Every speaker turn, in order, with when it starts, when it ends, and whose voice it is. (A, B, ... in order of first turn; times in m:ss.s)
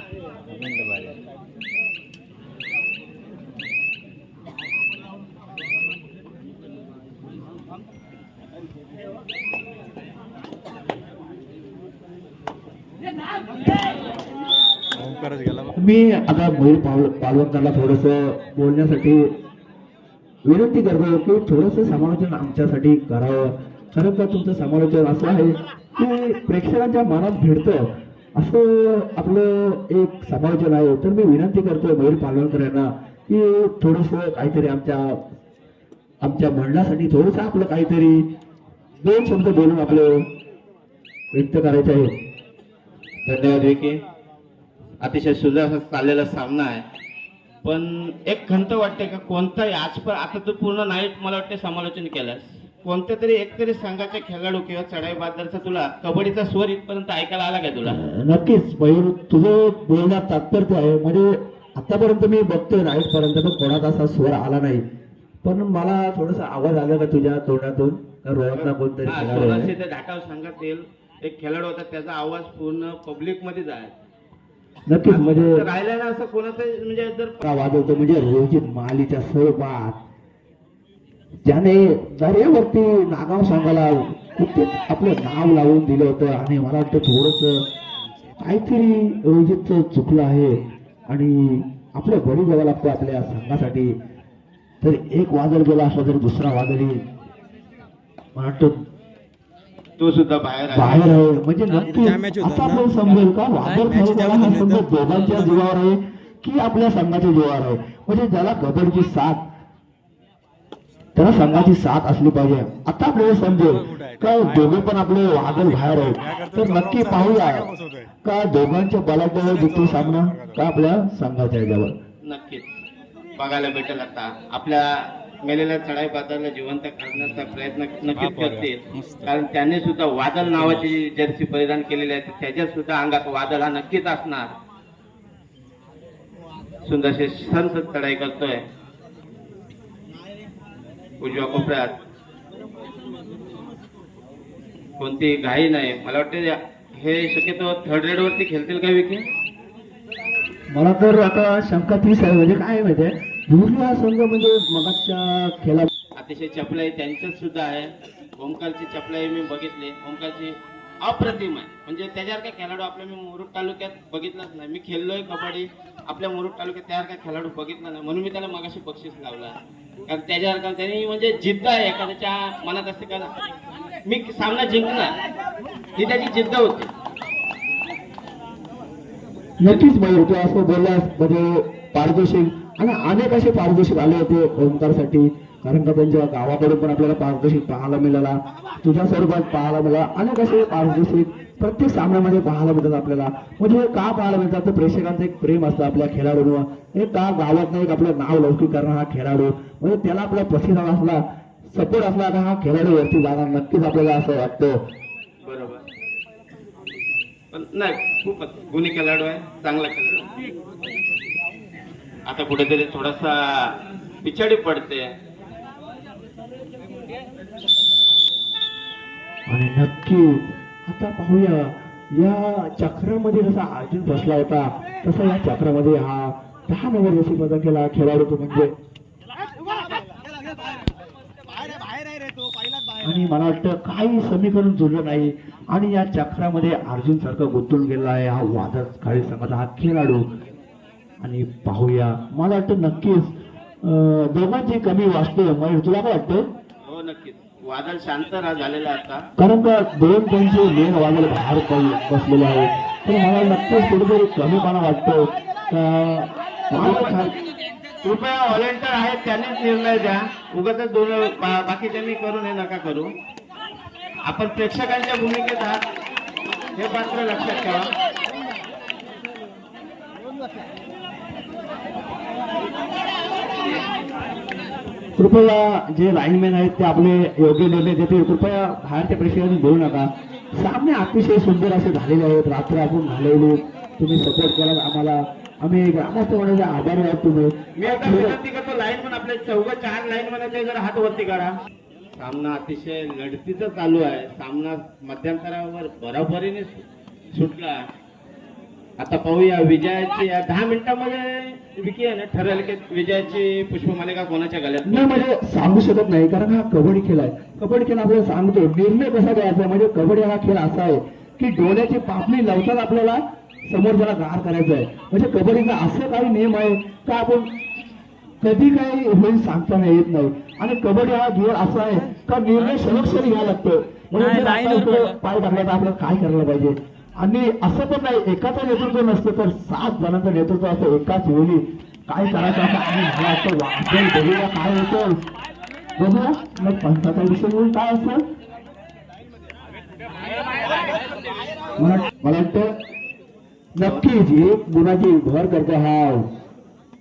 0:00.5-0:01.2 A
0:15.1-0:15.6 A
0:15.7-0:19.3 B
0:20.4-0:35.2 B
0:36.2-0:38.2 B
0:39.0-0:40.2 B
0:41.3-0:42.1 B
0:43.2-0:44.0 C
0:45.0-0:46.8 C
0:47.6-0:58.0 C
0:57.8-1:04.8 B
1:05.4-1:09.7 B
1:08.6-1:13.9 C
1:14.9-1:15.7 B
1:15.0-1:17.4 C
1:17.4-1:20.0 B
1:21.4-1:27.6 B
1:28.4-1:30.6 B
1:31.1-1:33.9 B
1:34.8-1:37.0 B
1:38.4-1:38.8 B
1:40.0-1:41.2 C
1:40.7-1:49.4 B
1:43.7-1:44.8 A
1:51.1-1:57.7 B
1:58.2-2:01.9 B
2:02.2-2:02.6 C
2:03.4-2:04.9 C
2:05.4-2:14.5 C
2:08.2-2:09.2 A
2:16.8-2:18.6 C
2:21.2-2:21.9 C
2:25.0-2:29.2 C
2:30.7-2:35.9 B
2:36.2-2:49.5 C
2:50.1-2:53.3 C
2:54.0-2:55.1 C
2:56.0-2:56.9 C
2:59.6-3:24.8 B
3:25.4-3:25.8 C
3:27.5-3:30.3 C
3:32.3-3:35.1 C
3:39.5-3:48.7 B
3:53.0-4:00.2 B
4:01.2-4:03.3 B
4:03.8-4:06.4 B
4:06.8-4:09.2 C
4:09.4-4:17.3 B
4:16.8-4:17.3 C
4:18.0-4:23.1 C
4:24.2-4:25.8 C
4:26.8-4:27.9 C
4:35.2-4:48.4 B
4:47.8-4:51.5 C
4:52.1-4:57.8 C
4:59.0-5:05.2 C
5:04.8-5:17.5 B
5:18.4-5:35.1 B
5:24.2-5:25.1 A
5:36.0-5:38.2 B
5:41.8-5:42.7 B
5:43.8-5:46.2 B
5:43.8-5:44.1 C